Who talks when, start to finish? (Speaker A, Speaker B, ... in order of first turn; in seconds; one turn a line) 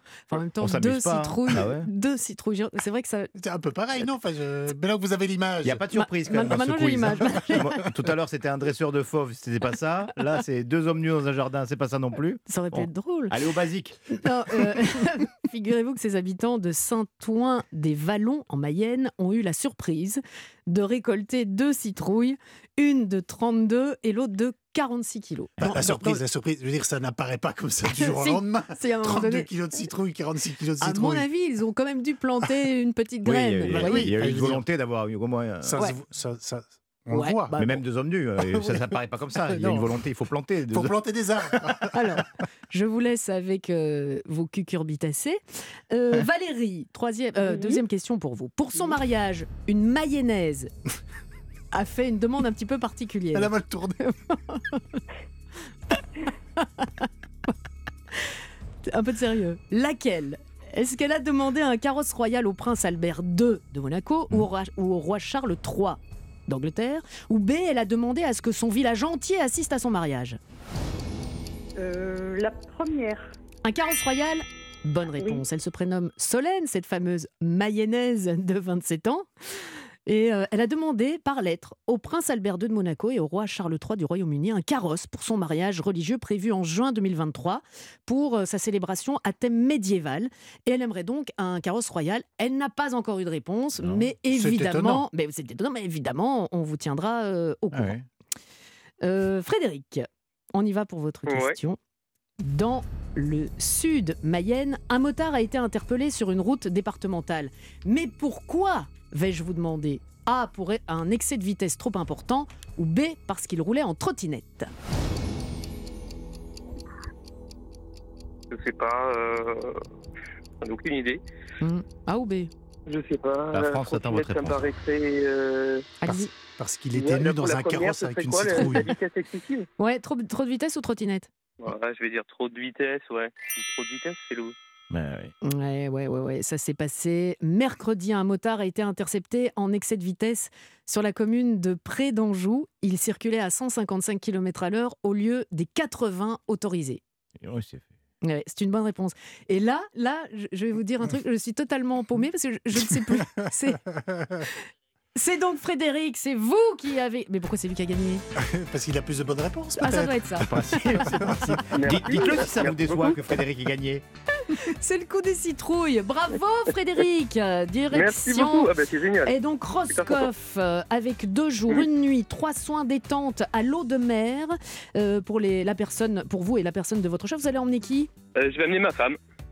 Speaker A: 0.3-3.3
Speaker B: 0.6-1.9
Speaker C: 3.4-5.8
Speaker B: 5.6-14.0
Speaker A: 5.9-7.8
Speaker A: 12.5-13.3
Speaker A: 14.1-26.2
Speaker C: 25.6-31.2
Speaker A: 27.9-29.5
Speaker A: 30.8-34.1
Speaker B: 33.2-35.8
Speaker C: 33.7-34.6
Speaker C: 35.6-37.6
Speaker A: 37.1-37.8
Speaker B: 37.6-41.0
Speaker C: 39.5-39.9
Speaker C: 40.7-41.9
Speaker A: 41.9-50.7
Speaker D: 47.4-47.8
Speaker A: 51.7-55.0
Speaker C: 53.3-54.0
Speaker A: 56.6-57.1
Speaker A: 58.9-70.4
Speaker D: 71.8-73.3
Speaker A: 73.7-79.3
Speaker D: 75.2-75.4
Speaker A: 80.1-97.9
Speaker B: 93.8-94.1
Speaker C: 94.3-95.1
Speaker B: 97.7-98.1
Speaker A: 99.0-101.8
Speaker E: 101.3-101.5
Speaker A: 102.4-114.7
Speaker E: 118.5-119.8
Speaker E: 120.6-121.2
Speaker A: 121.6-122.5
Speaker E: 122.9-125.9
Speaker B: 123.5-124.7
Speaker A: 126.0-126.3
Speaker C: 126.0-128.9
Speaker E: 126.9-129.7
Speaker A: 128.5-128.8
Speaker A: 129.8-131.3
Speaker E: 131.6-134.5
Speaker B: 134.9-135.3
Speaker A: 135.4-147.0
Speaker B: 147.4-147.9
Speaker A: 148.2-153.8
Speaker C: 153.9-154.5
Speaker A: 155.2-158.2
Speaker C: 158.4-161.5
Speaker A: 159.8-160.5
Speaker B: 160.5-164.0
Speaker E: 161.8-163.2
Speaker A: 164.5-168.7
Speaker E: 167.9-169.3
Speaker A: 169.3-178.1
Speaker E: 169.9-170.3
Speaker E: 178.4-179.2